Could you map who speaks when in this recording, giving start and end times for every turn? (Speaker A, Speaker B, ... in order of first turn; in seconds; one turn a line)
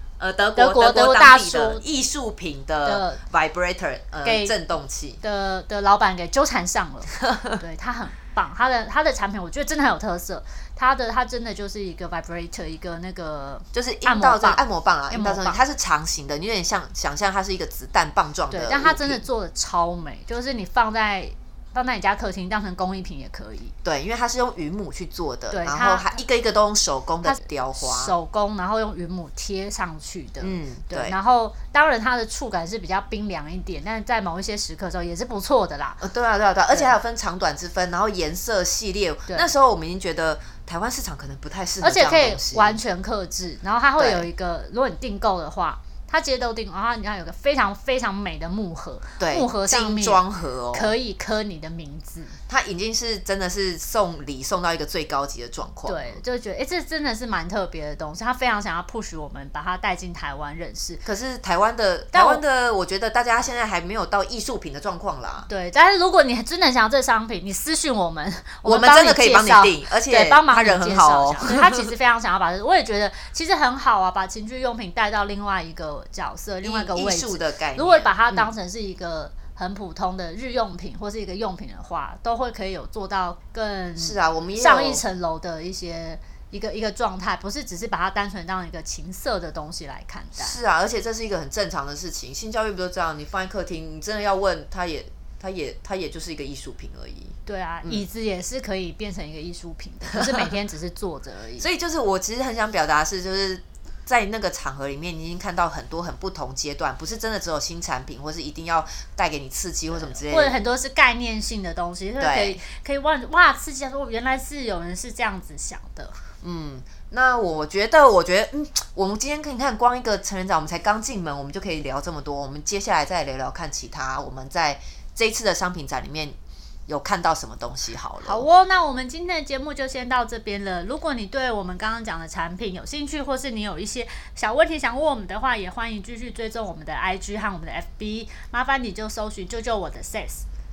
Speaker A: 0.2-5.2
Speaker B: 0.6-1.8
Speaker B: 2.9-3.2
Speaker B: 4.2-4.5
Speaker B: 5.2-15.6
Speaker A: 13.7-19.2
Speaker B: 18.5-23.7
Speaker A: 23.8-28.1
Speaker B: 25.5-26.2
Speaker B: 27.2-36.0
Speaker A: 30.4-31.2
Speaker A: 36.0-42.8
Speaker B: 41.8-50.2
Speaker A: 44.0-44.3
Speaker A: 49.2-50.9
Speaker B: 50.7-52.4
Speaker A: 52.5-56.2
Speaker B: 55.9-61.0
Speaker A: 61.0-65.5
Speaker B: 62.1-62.4
Speaker B: 65.5-90.6
Speaker A: 68.7-71.8
Speaker A: 76.6-78.5
Speaker A: 84.0-85.0
Speaker A: 90.3-98.0
Speaker B: 97.5-101.7
Speaker A: 101.6-110.6
Speaker B: 109.9-116.2
Speaker A: 112.2-112.6
Speaker A: 116.4-128.4
Speaker B: 128.2-140.4